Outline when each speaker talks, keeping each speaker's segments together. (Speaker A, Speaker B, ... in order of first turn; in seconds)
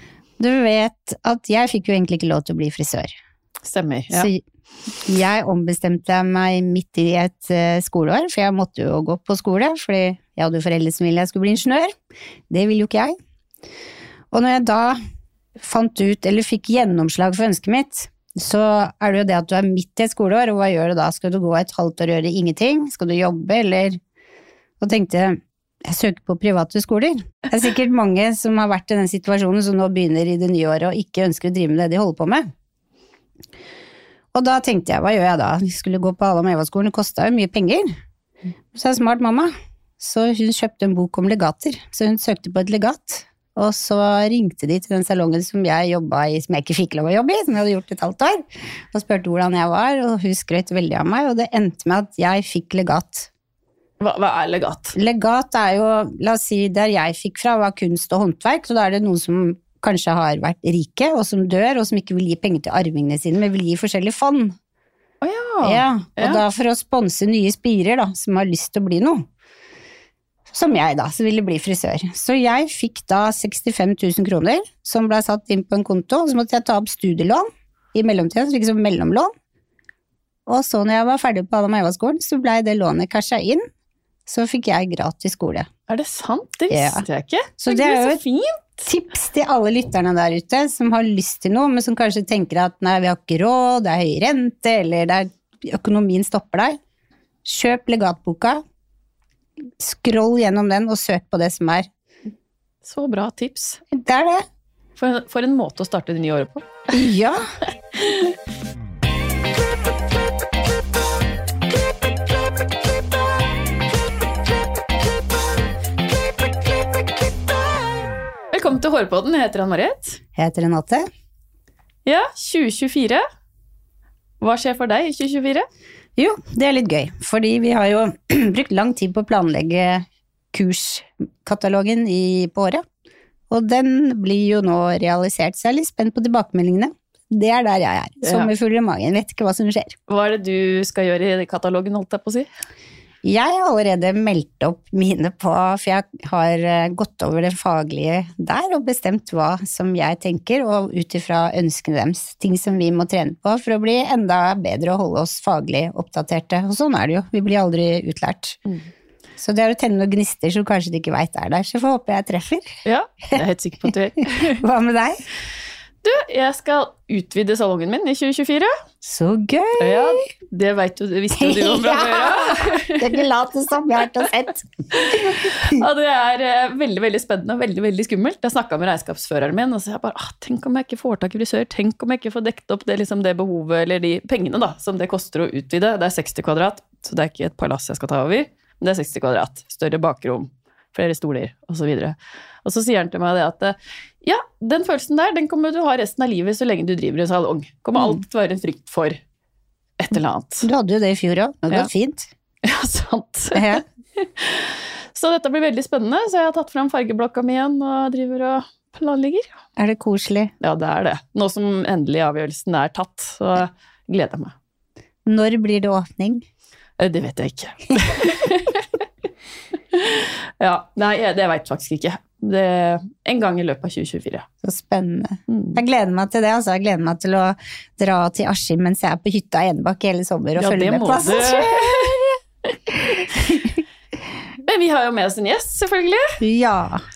Speaker A: 0.4-3.1, 4.1-4.4, 5.0-11.9, 12.5-13.2, 14.3-15.0, 15.6-24.0, 24.8-32.5, 34.3-37.9, 38.7-53.3, 55.0-64.5, 65.6-69.2, 70.5-79.3, 80.5-83.7, 84.3-85.7, 86.7-87.0, 87.6-88.2, 88.8-96.8, 97.4-98.6, 99.8-101.9, 103.9-104.4, 106.9-107.4, 120.3-121.1, 126.2-132.8, 133.5-139.9, 143.2-158.6, 159.4-162.8, 164.4-165.2, 169.0-170.2, 171.4-175.8, 200.6-202.3, 203.5-203.8, 209.8-210.5, 215.2-216.4, 224.6-232.3, 236.4-237.0
Speaker B: 3.6-4.3, 54.0-55.0, 65.2-66.4, 85.9-88.8, 102.8-103.8, 105.0-106.9, 107.9-108.3, 118.5-120.2, 122.0-123.2, 124.4-125.7, 138.2-138.5, 140.1-142.5, 162.8-164.6, 166.0-168.7, 169.8-173.2, 174.9-199.2, 200.0-200.7, 202.6-209.5, 210.6-214.5, 217.0-218.9, 219.9-224.4, 225.5-225.8, 230.6-232.2, 234.6-236.3